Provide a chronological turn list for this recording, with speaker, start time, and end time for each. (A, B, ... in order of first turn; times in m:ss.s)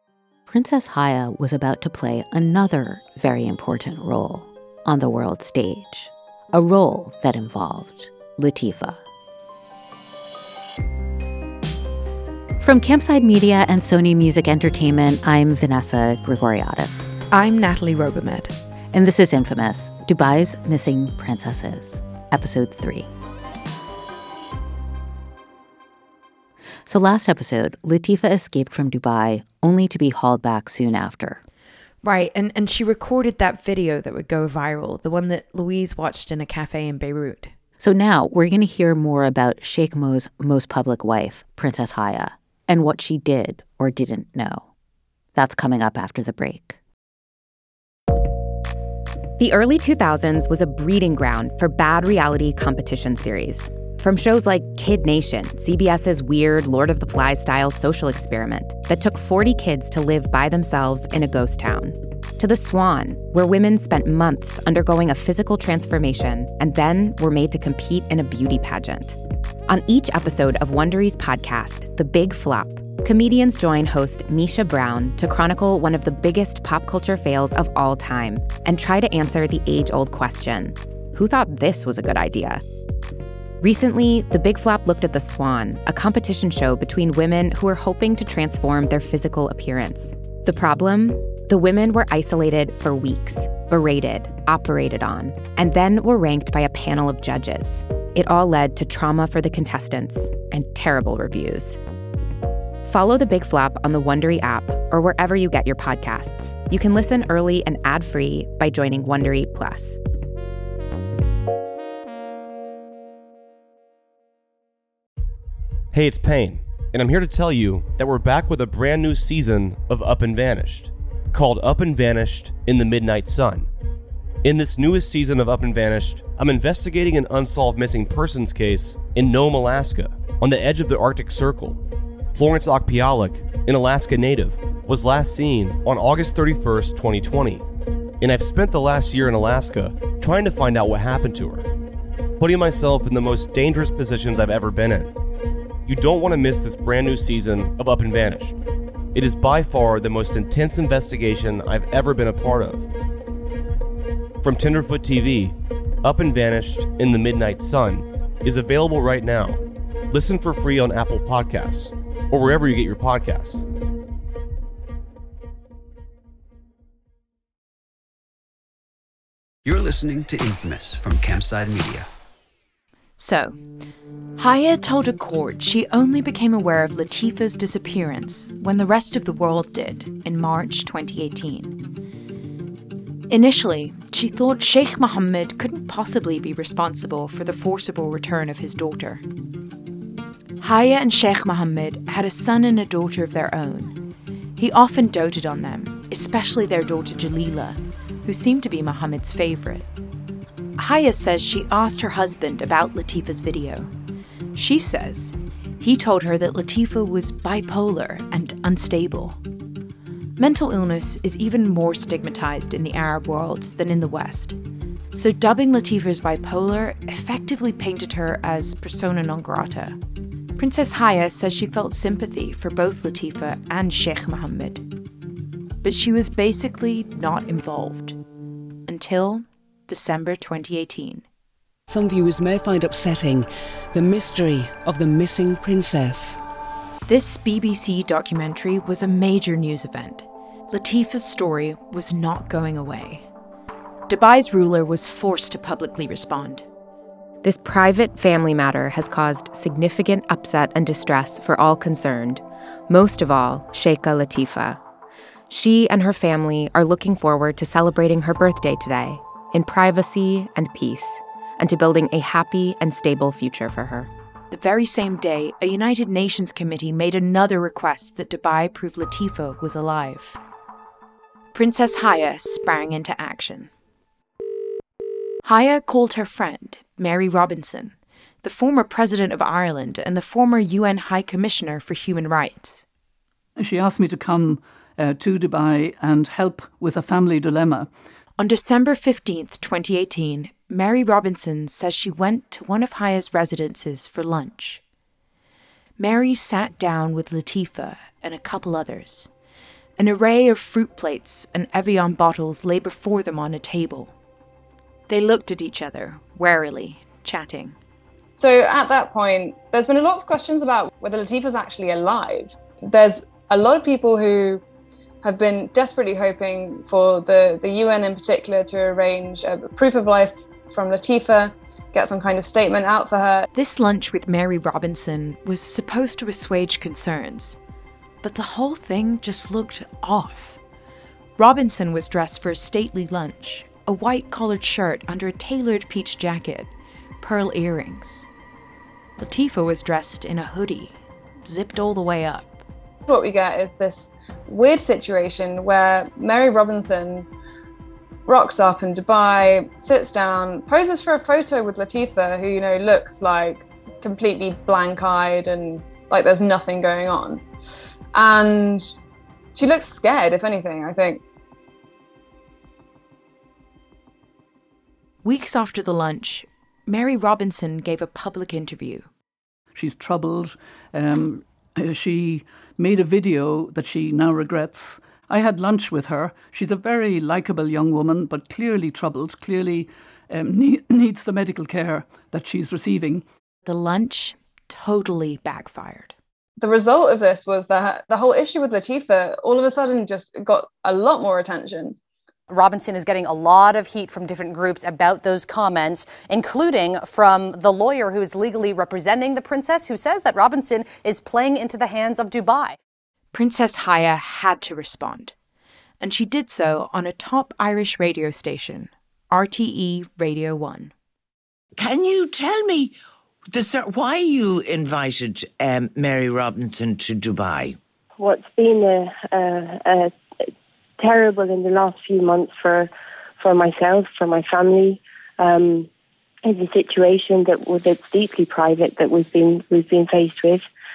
0:00.5-0:09.0 A
0:12.6-0:17.1 A
0:17.3-0:18.5 B
0:18.9-0:23.1 A
0:26.8-0:31.4 A
0:32.0-0:37.5 B
0:37.8-0:44.7 A
0:45.3-0:46.8 A
0:49.4-1:09.2 C
1:09.7-1:22.6 C
1:23.6-1:41.8 C
1:42.8-1:50.0 C
1:55.9-2:03.7 D
2:04.4-2:11.8 D
2:12.3-2:17.6 D
2:18.2-2:21.7 D
2:22.4-2:25.1 D
2:25.9-2:28.6 D
2:29.1-2:32.9 D
2:34.4-2:39.6 D
2:40.1-2:43.6 D
2:49.6-2:52.1 E
2:53.2-2:53.6 B
2:54.4-3:01.8 B
3:03.3-3:09.2 B
3:10.6-3:14.0 B
3:14.6-3:19.9 B
3:20.8-3:23.9 B
3:24.5-3:29.4 B
3:30.4-3:34.6 B
3:35.1-3:40.0 B
3:40.6-3:44.8 B
3:45.8-3:48.2 B
3:48.9-3:51.2 B
3:51.9-3:56.4 F
3:57.0-4:03.3 B
4:04.1-4:06.6 B
4:07.4-4:14.8 C
4:15.5-4:24.1 C
4:24.5-4:30.4 B
4:31.5-4:33.7 B
4:35.4-4:42.8 B
4:43.6-4:47.9 G
4:48.4-4:54.8 B
4:56.0-4:59.3 B
5:00.0-5:04.1 B
5:05.1-5:07.8 B
5:08.4-5:14.6 H
5:15.2-5:23.5 H
5:23.5-5:27.6 B
5:28.2-5:30.6 B
5:31.4-5:38.3 B
5:39.2-5:42.6 B
5:43.0-5:47.3 H
5:48.2-5:57.4 H
5:58.1-5:58.9 H
5:59.5-6:01.2 H
6:05.2-6:09.1 B
6:09.7-6:23.2 G
6:23.6-6:26.2 B
6:26.6-6:32.0 H
6:32.5-6:42.7 I
6:43.3-6:45.3 B
6:46.0-6:50.9 B
6:51.8-6:52.9 J
6:53.5-6:57.8 J
6:58.2-7:00.1 K
7:01.0-7:05.9 K
7:06.4-7:10.7 K